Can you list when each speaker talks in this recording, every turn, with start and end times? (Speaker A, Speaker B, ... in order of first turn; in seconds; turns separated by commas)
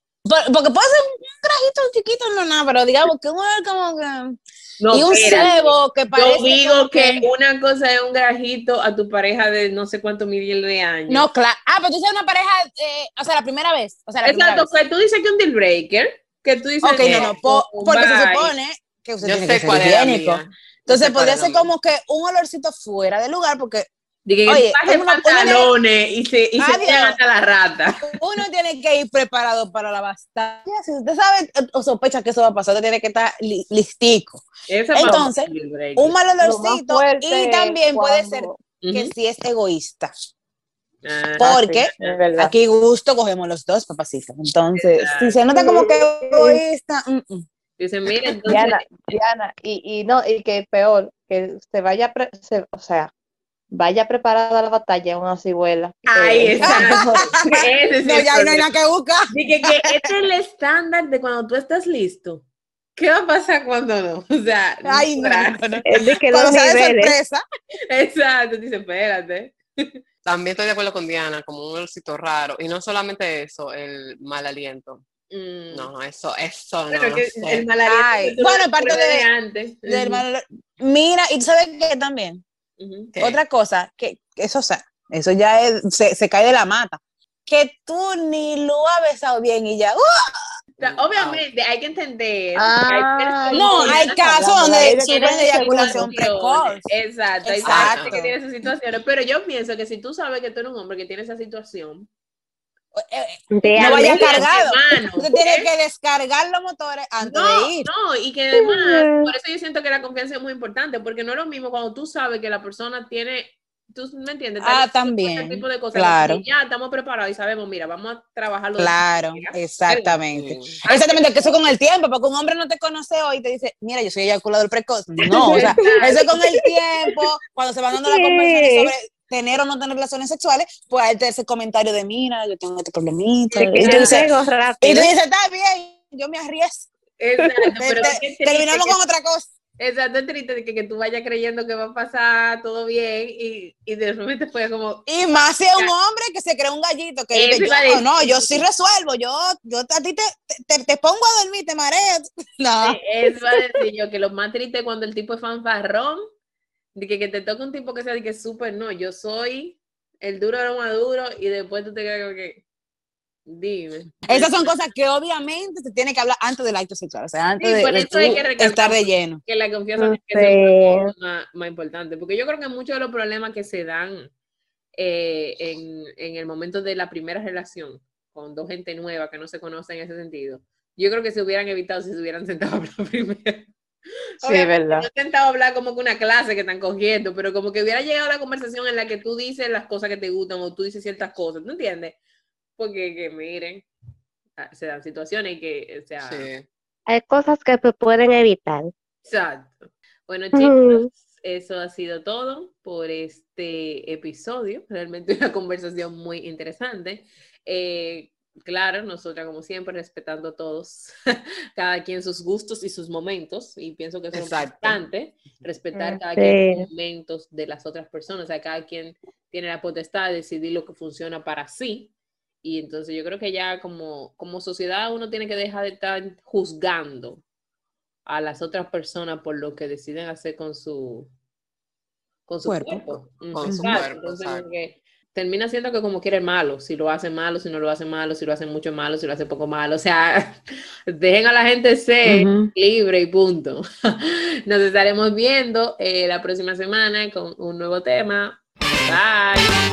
Speaker A: 0.2-4.4, Speaker B: 4.8-5.6, Speaker A: 4.9-7.3, Speaker B: 6.1-11.3, Speaker A: 11.1-14.7, Speaker B: 14.2-18.5, Speaker A: 16.8-23.9, Speaker C: 17.0-17.3, Speaker C: 19.2-21.7, Speaker B: 24.3-28.1, Speaker A: 24.5-25.7, Speaker A: 26.6-27.2, Speaker A: 28.0-40.1, Speaker B: 34.7-36.2, Speaker D: 36.4-38.6, Speaker B: 38.8-39.1, Speaker B: 41.0-42.2, Speaker A: 41.4-47.5, Speaker D: 41.4-42.5, Speaker B: 44.8-45.4, Speaker D: 45.6-46.6, Speaker B: 47.8-49.1, Speaker D: 48.5-53.1, Speaker D: 53.7-57.3, Speaker B: 56.1-58.7, Speaker A: 56.6-60.1, Speaker B: 59.3-65.8, Speaker A: 64.8-67.4, Speaker E: 65.9-67.2, Speaker B: 67.9-69.9, Speaker C: 70.2-75.0, Speaker B: 75.3-75.9, Speaker C: 75.7-77.7, Speaker B: 76.9-80.2, Speaker A: 77.9-79.3, Speaker A: 79.9-82.4, Speaker B: 82.8-83.1, Speaker C: 83.1-83.4, Speaker A: 83.2-90.3, Speaker C: 90.8-91.4, Speaker B: 90.8-102.1, Speaker D: 92.6-96.1, Speaker A: 93.5-96.9, Speaker A: 97.4-98.4, Speaker C: 97.6-98.1, Speaker A: 102.9-107.9, Speaker E: 103.5-104.4, Speaker B: 103.7-105.7, Speaker B: 107.2-120.2, Speaker E: 108.6-109.3, Speaker A: 114.6-116.4, Speaker A: 118.8-134.3, Speaker C: 120.3-120.8, Speaker B: 120.8-121.3, Speaker B: 125.3-126.3, Speaker E: 125.6-126.0, Speaker E: 128.1-128.9, Speaker E: 133.5-135.1, Speaker B: 133.8-134.3, Speaker A: 134.8-136.9, Speaker B: 137.2-139.0, Speaker A: 137.8-139.5, Speaker B: 139.8-145.1, Speaker A: 145.1-153.0, Speaker B: 147.3-148.7, Speaker B: 152.8-156.2, Speaker B: 156.9-162.6, Speaker B: 163.5-164.8, Speaker A: 164.3-169.4, Speaker B: 167.6-174.3, Speaker E: 170.0-171.1, Speaker B: 174.9-183.7, Speaker B: 184.4-192.2, Speaker C: 184.4-185.1, Speaker B: 192.8-193.9, Speaker B: 194.6-196.5, Speaker C: 196.2-196.7, Speaker E: 197.1-198.9, Speaker B: 199.2-211.1, Speaker E: 200.6-201.1, Speaker B: 211.8-222.1, Speaker C: 214.3-215.0, Speaker E: 215.9-216.8, Speaker B: 222.6-227.4, Speaker B: 228.3-231.3, Speaker B: 232.5-249.8, Speaker A: 232.6-233.0, Speaker C: 233.5-234.6, Speaker A: 233.7-234.0, Speaker A: 242.2-242.7